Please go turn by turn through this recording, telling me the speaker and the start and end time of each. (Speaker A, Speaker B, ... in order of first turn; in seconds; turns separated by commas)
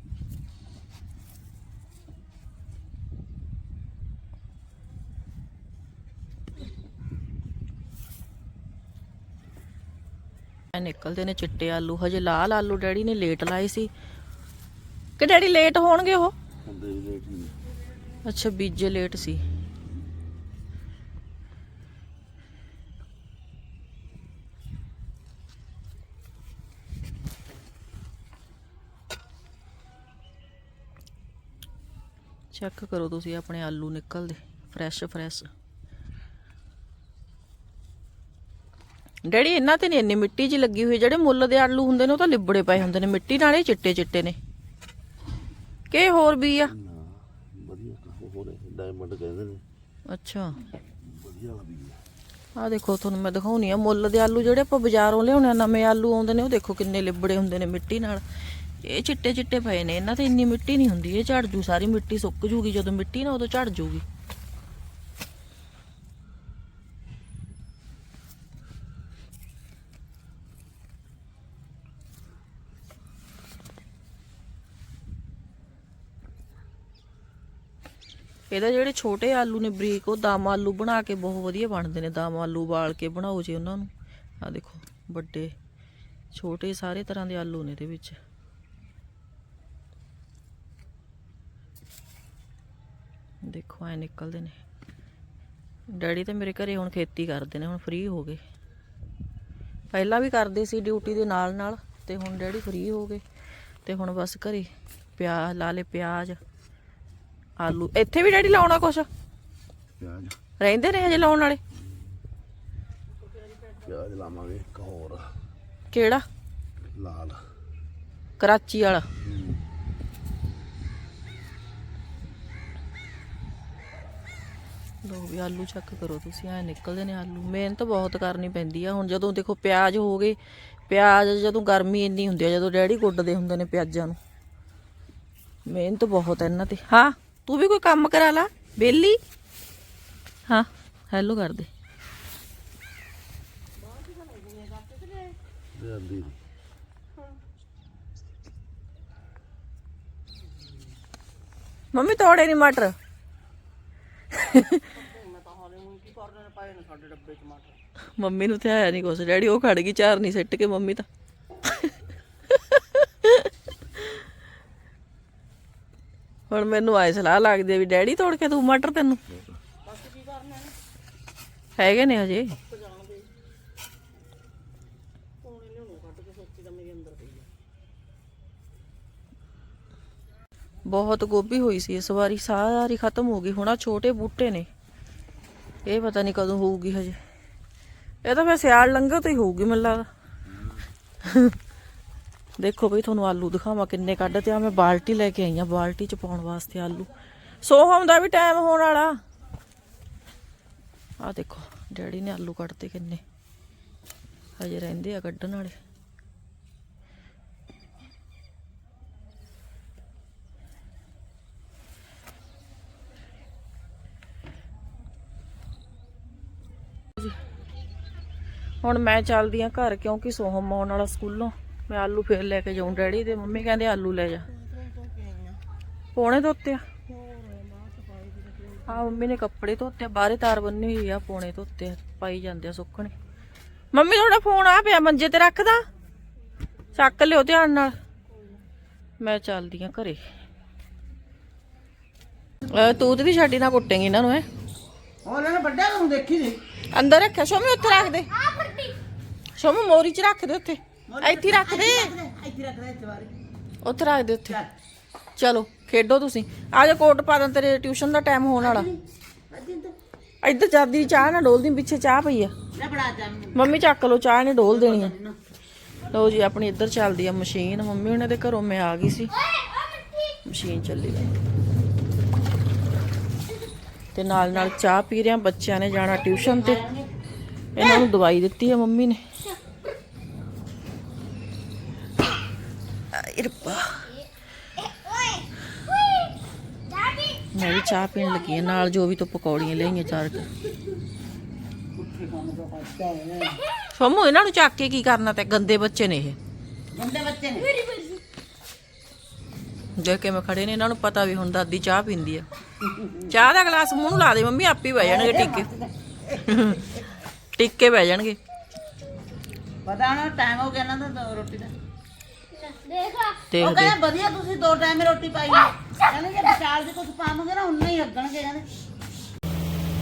Speaker A: 10.7-13.9, Speaker A: 15.2-16.4, Speaker B: 16.6-17.6, Speaker A: 18.2-19.4, Speaker A: 32.5-35.5, Speaker A: 39.3-44.4, Speaker A: 45.9-46.8, Speaker B: 46.7-49.6, Speaker A: 50.1-50.6, Speaker B: 51.0-52.0, Speaker A: 52.6-58.2, Speaker A: 58.8-64.0, Speaker A: 78.5-83.9, Speaker A: 84.4-85.5, Speaker A: 86.3-88.2, Speaker A: 93.4-94.6, Speaker A: 95.9-98.4, Speaker A: 99.9-103.2, Speaker A: 103.8-106.4, Speaker A: 107.6-109.1, Speaker B: 110.0-110.4, Speaker A: 110.6-111.6, Speaker B: 113.7-115.3, Speaker A: 115.9-116.2, Speaker B: 116.9-117.4, Speaker A: 118.4-119.1, Speaker B: 119.2-119.6, Speaker A: 125.0-130.4, Speaker A: 130.9-134.2, Speaker A: 135.7-139.2, Speaker A: 140.5-141.7, Speaker B: 145.8-146.4, Speaker A: 151.9-153.0, Speaker A: 154.3-154.9, Speaker C: 155.8-156.2, Speaker A: 158.2-161.1, Speaker A: 162.5-163.5, Speaker A: 166.5-169.2, Speaker A: 171.8-172.6, Speaker A: 180.9-184.7, Speaker A: 185.8-187.2, Speaker A: 188.2-190.1, Speaker A: 191.2-191.6, Speaker A: 192.6-197.1, Speaker A: 197.6-199.2, Speaker A: 201.2-203.2, Speaker A: 204.6-205.8, Speaker A: 218.8-224.5, Speaker A: 226.2-226.8, Speaker A: 228.8-233.1, Speaker A: 233.9-235.8, Speaker A: 236.9-238.0, Speaker A: 239.2-240.2, Speaker A: 242.7-244.5, Speaker C: 245.2-246.6, Speaker A: 246.9-248.3, Speaker A: 249.6-252.1, Speaker C: 251.1-253.4, Speaker A: 253.8-254.6, Speaker A: 255.4-258.9, Speaker C: 258.6-259.9, Speaker A: 260.4-262.5, Speaker C: 262.7-263.6, Speaker A: 263.6-265.1, Speaker C: 264.7-265.4, Speaker A: 266.1-269.3, Speaker A: 270.4-271.3, Speaker A: 274.1-276.8, Speaker C: 276.2-277.1, Speaker A: 277.8-279.2, Speaker A: 283.1-284.1, Speaker A: 287.5-290.5, Speaker C: 292.0-293.6, Speaker A: 293.9-296.4, Speaker C: 296.9-297.8, Speaker A: 300.0-302.5, Speaker A: 303.2-305.7, Speaker C: 305.0-306.8, Speaker A: 306.4-306.9, Speaker A: 307.6-308.4, Speaker C: 309.9-311.7, Speaker C: 312.6-318.7, Speaker A: 313.5-313.9